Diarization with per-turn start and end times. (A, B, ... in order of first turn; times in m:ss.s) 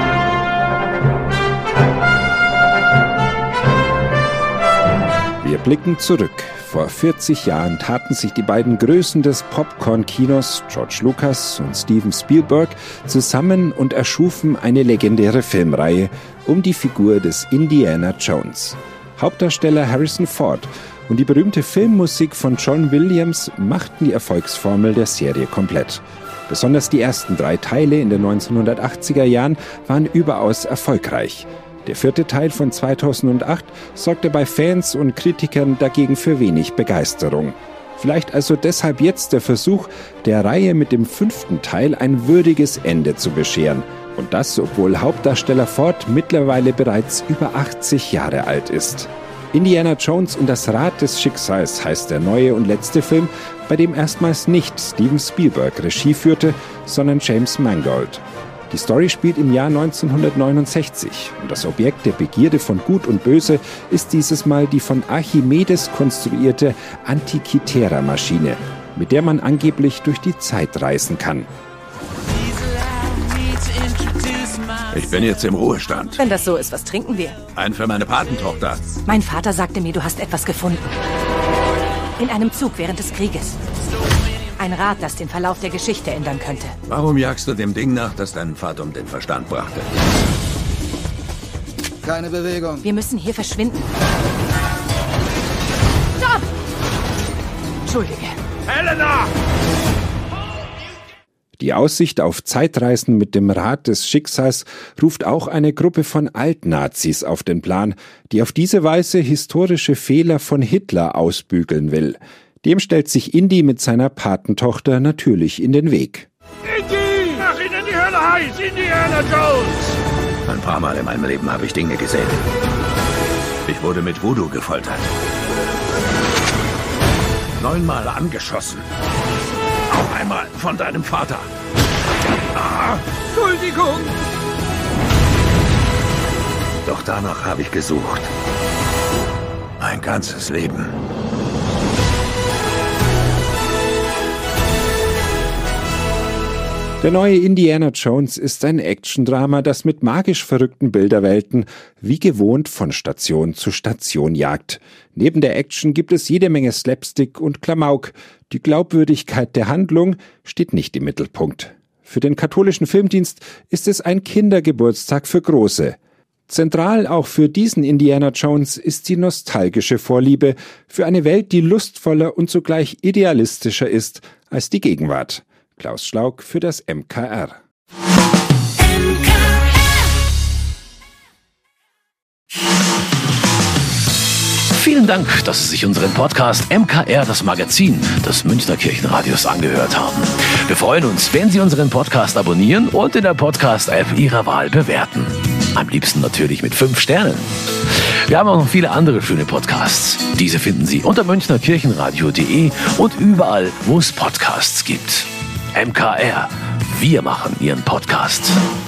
0:05.4-1:11.5 A
1:14.9-1:16.2 B
1:16.2-1:17.4 C
1:17.5-1:18.8 B
1:19.0-1:20.8 C
1:22.2-1:23.6 C
1:24.6-1:26.8 C
1:26.9-1:29.9 B
1:32.8-1:33.8 C
1:37.8-1:38.4 C
1:41.6-1:56.3 A
2:00.5-2:02.4 B
2:03.7-2:05.0 B
2:07.6-2:08.8 B
2:09.9-2:11.5 B
2:12.6-2:14.1 B
2:16.8-2:18.3 B
2:19.8-2:20.9 B
2:27.0-2:46.0 A
2:46.5-2:57.6 A
3:04.7-3:28.6 D